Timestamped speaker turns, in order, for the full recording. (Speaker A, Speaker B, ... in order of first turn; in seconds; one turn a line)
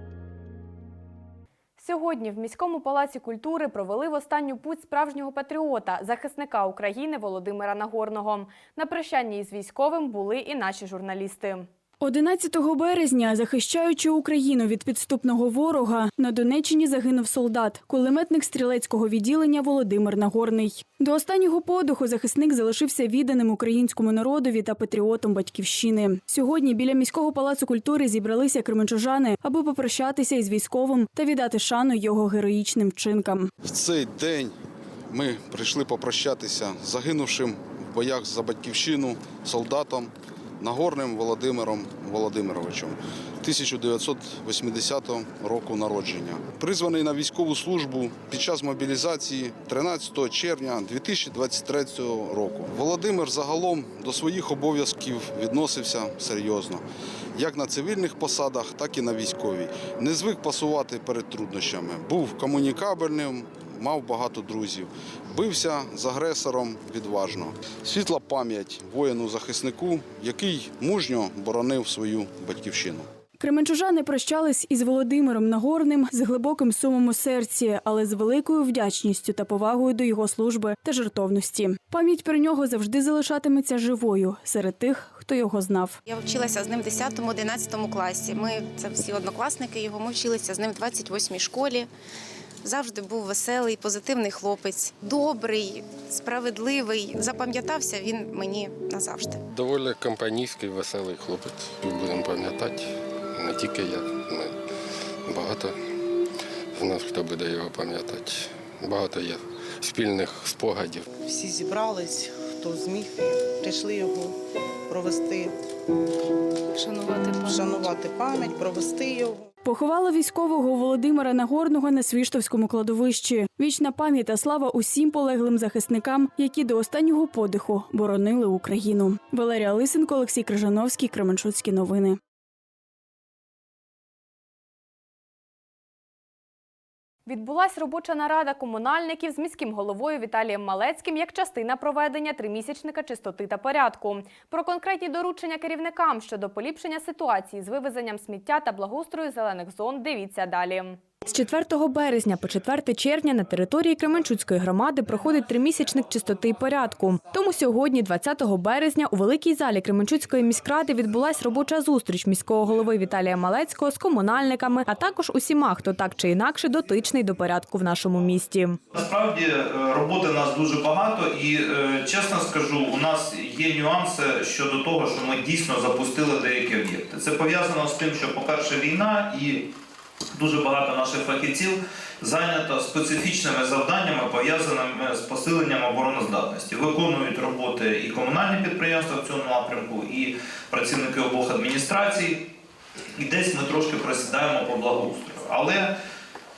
Speaker A: 1.8-11.7
Speaker B: 12.0-33.5
Speaker C: 33.6-34.6
Speaker C: 35.1-56.8
Speaker C: 57.4-73.1
Speaker B: 73.4-86.0
Speaker D: 86.1-91.9
Speaker D: 92.6-99.4
Speaker E: 99.5-104.6
Speaker E: 105.3-105.8
Speaker E: 106.8-111.1
Speaker F: 111.2-114.4
Speaker F: 114.9-115.5
Speaker F: 116.8-119.5
Speaker B: 119.7-132.2
Speaker A: 137.3-168.8
Speaker G: 168.9-179.7
Speaker G: 180.3-192.4
Speaker G: 193.2-195.9